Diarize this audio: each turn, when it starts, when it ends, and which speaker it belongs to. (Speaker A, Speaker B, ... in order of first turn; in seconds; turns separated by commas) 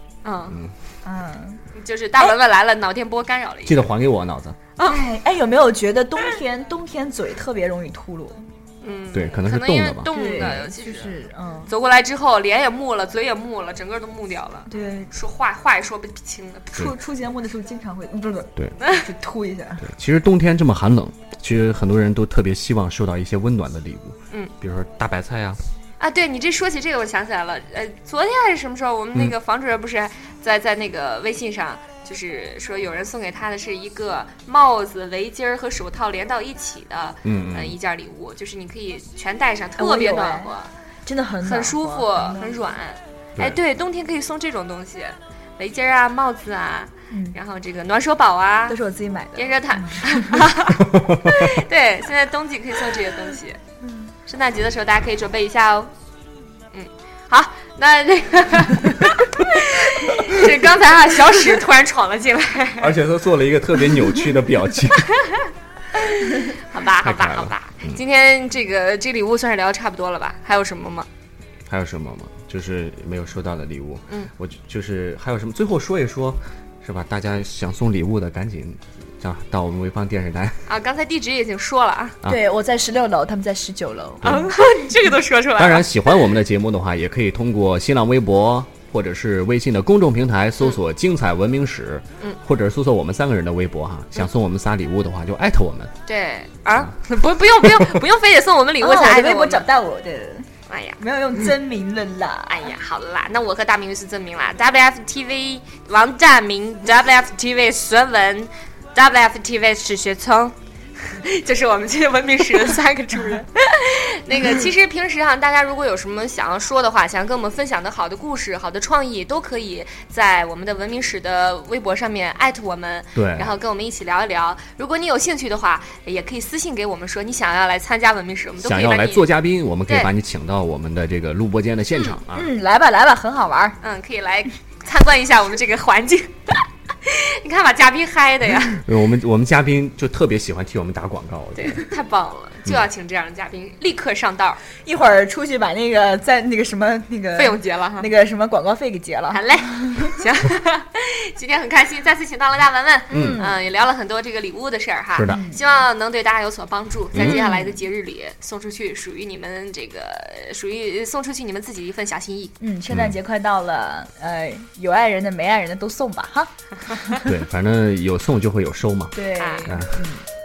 Speaker A: 0.2-0.6, Speaker B: 1.0-1.6, Speaker A: 1.7-3.9, Speaker C: 3.6-4.6, Speaker B: 4.8-8.5, Speaker A: 8.8-16.9, Speaker C: 9.1-10.6, Speaker B: 10.1-11.7, Speaker B: 14.7-15.1, Speaker B: 16.8-19.9, Speaker C: 19.8-25.6, Speaker A: 26.0-40.7, Speaker C: 37.2-37.8, Speaker B: 39.8-40.5, Speaker B: 41.1-42.6, Speaker A: 41.4-48.8, Speaker B: 47.1-47.4, Speaker B: 48.7-50.5, Speaker A: 49.4-53.6, Speaker C: 50.9-51.4, Speaker B: 53.8-54.1, Speaker A: 54.3-55.9, Speaker A: 56.7-62.9, Speaker C: 62.8-65.1, Speaker A: 65.1-71.1, Speaker C: 67.0-68.0, Speaker C: 71.7-80.6, Speaker A: 80.7-82.2, Speaker B: 82.3-84.4, Speaker C: 84.2-84.5, Speaker A: 84.2-86.1, Speaker C: 85.6-95.9, Speaker A: 96.1-99.7, Speaker B: 98.8-102.7, Speaker A: 100.7-101.0, Speaker A: 102.5-129.3, Speaker C: 123.1-123.5, Speaker C: 128.6-132.5, Speaker A: 129.9-130.1, Speaker A: 131.9-132.2, Speaker B: 132.3-133.8, Speaker A: 133.8-138.8, Speaker C: 138.7-141.9, Speaker A: 141.6-144.6, Speaker B: 144.8-150.1, Speaker A: 147.4-148.1, Speaker A: 149.3-162.5, Speaker B: 153.1-153.6, Speaker C: 153.1-153.4, Speaker C: 155.1-155.4, Speaker B: 155.3-155.6, Speaker C: 157.1-157.4, Speaker B: 157.1-157.8, Speaker B: 162.6-167.2, Speaker C: 162.9-163.2, Speaker A: 166.9-167.2, Speaker C: 167.2-169.2, Speaker B: 169.1-170.2, Speaker A: 169.4-169.8, Speaker C: 169.7-170.1